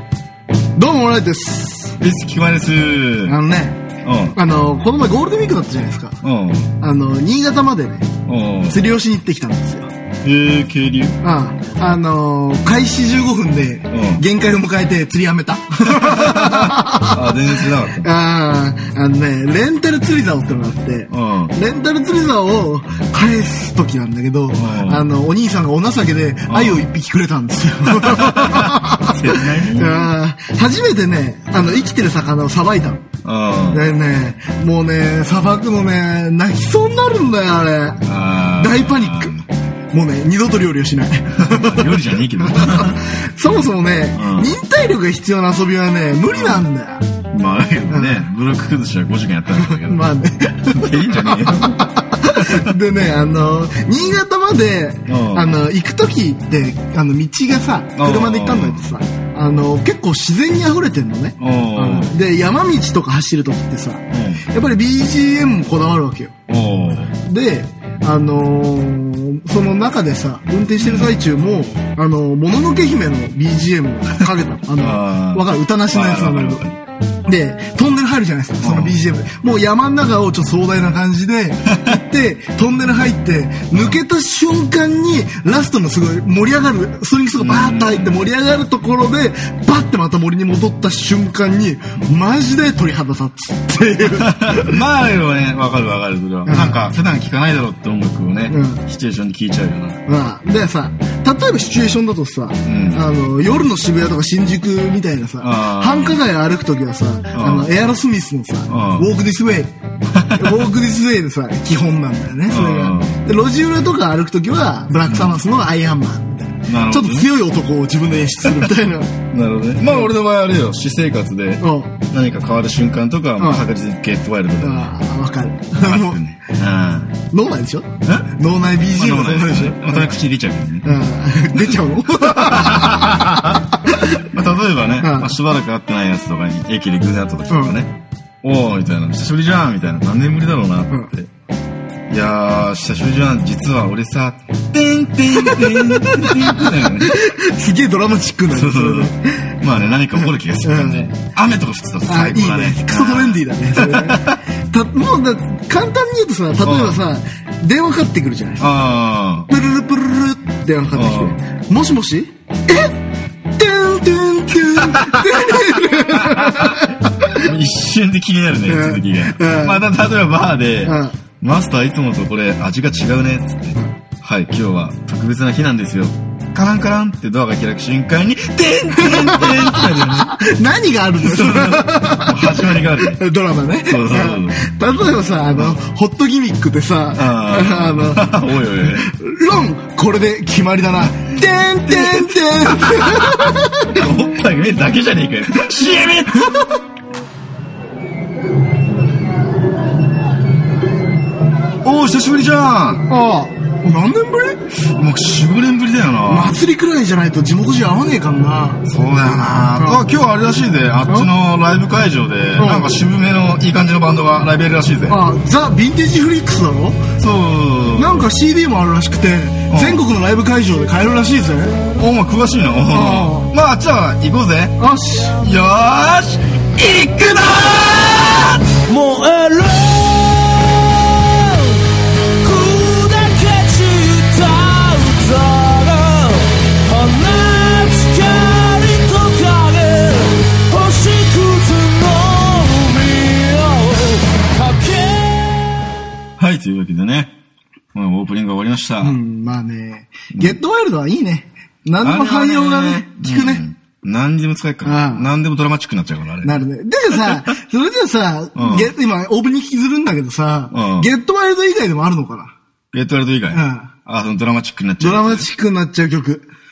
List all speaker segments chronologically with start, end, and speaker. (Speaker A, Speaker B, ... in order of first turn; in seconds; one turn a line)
Speaker A: 0.8-2.0
Speaker B: 2.0-3.4
Speaker A: 3.3-3.8
Speaker B: 4.0-4.4
Speaker A: 4.3-6.2
Speaker B: 6.2-6.7
Speaker A: 6.8-8.1
Speaker B: 8.3-8.8
Speaker A: 8.7-9.9
Speaker B: 10.2-11.2
Speaker A: 11.2-17.3
Speaker B: 13.9-14.2
Speaker B: 15.9-18.1
Speaker A: 17.9-33.0
Speaker B: 21.1-21.5
Speaker B: 24.6-25.1
Speaker B: 26.5-26.8
Speaker B: 27.9-30.1
Speaker B: 33.2-33.8
Speaker A: 33.7-38.0
Speaker B: 38.0-39.5
Speaker A: 38.6-39.3
Speaker A: 39.9-47.0
Speaker B: 41.4-43.0
Speaker B: 44.1-44.5
Speaker B: 46.3-46.7
Speaker B: 47.3-50.1
Speaker A: 47.9-48.2
Speaker A: 49.6-66.3
Speaker B: 50.7-52.7
Speaker B: 55.1-55.5
Speaker B: 58.0-58.8
Speaker B: 61.4-62.1
Speaker B: 64.1-64.5
Speaker B: 66.5-67.1
Speaker A: 67.2-76.6
Speaker B: 70.8-71.1
Speaker B: 74.8-76.8
Speaker A: 77.3-94.8
Speaker B: 78.6-79.0
Speaker B: 81.7-82.0
Speaker B: 83.7-84.0
Speaker B: 87.4-88.2
Speaker B: 94.0-100.0
Speaker A: 96.5-96.8
Speaker A: 98.5-98.8
Speaker A: 100.1-109.7
Speaker B: 102.7-103.1
Speaker B: 105.4-106.2
Speaker B: 107.3-107.7
Speaker B: 108.7-109.1
Speaker B: 110.1-110.6
Speaker A: 110.3-119.1
Speaker B: 112.5-113.2
Speaker B: 115.1-115.4
Speaker B: 116.7-117.3
Speaker B: 118.5-118.7
Speaker B: 119.3-124.9
Speaker A: 121.6-121.9
Speaker A: 123.4-123.7
Speaker A: 124.6-126.2
Speaker B: 125.8-127.1
Speaker A: 127.3-130.1
Speaker B: 128.9-130.9
Speaker A: 130.8-134.2
Speaker B: 131.5-133.6
Speaker B: 134.3-141.3
Speaker A: 135.0-135.4
Speaker A: 137.5-137.8
Speaker B: 142.1-147.2
Speaker A: 145.4-149.5
Speaker B: 148.5-154.4
Speaker A: 150.2-151.1
Speaker A: 152.1-158.7
Speaker B: 156.6-157.0
Speaker B: 158.6-159.5
Speaker A: 159.5-163.0
Speaker B: 160.9-161.4
Speaker A: 163.6-167.5
Speaker B: 164.8-165.6
Speaker B: 166.1-180.4
Speaker A: 168.7-169.8
Speaker A: 170.8-171.2
Speaker A: 179.0-188.3
Speaker B: 181.2-183.2
Speaker B: 183.9-184.7
Speaker B: 185.5-185.8
Speaker B: 187.1-189.1
Speaker A: 189.0-194.1
Speaker B: 191.8-196.5
Speaker A: 196.3-196.7
Speaker B: 201.8-203.1
Speaker A: 203.1-204.6
Speaker B: 204.9-206.6
Speaker A: 206.3-208.8
Speaker B: 208.8-215.2
Speaker A: 209.8-210.0
Speaker A: 212.6-213.0
Speaker A: 215.1-217.0
Speaker B: 217.2-218.3
Speaker A: 218.0-221.8
Speaker B: 219.7-220.0
Speaker B: 222.0-224.8
Speaker A: 222.9-223.5
Speaker A: 224.8-225.4
Speaker B: 225.4-228.7
Speaker C: 228.7-231.8
Speaker C: 232.4-245.9
Speaker B: 246.4-247.3
Speaker B: 247.9-249.2
Speaker A: 249.0-253.6
Speaker B: 252.0-257.4
Speaker A: 254.8-255.3
Speaker A: 256.4-262.5
Speaker B: 258.6-258.9
Speaker B: 260.7-261.1
Speaker B: 262.9-265.5
Speaker A: 263.5-263.9
Speaker A: 265.0-266.4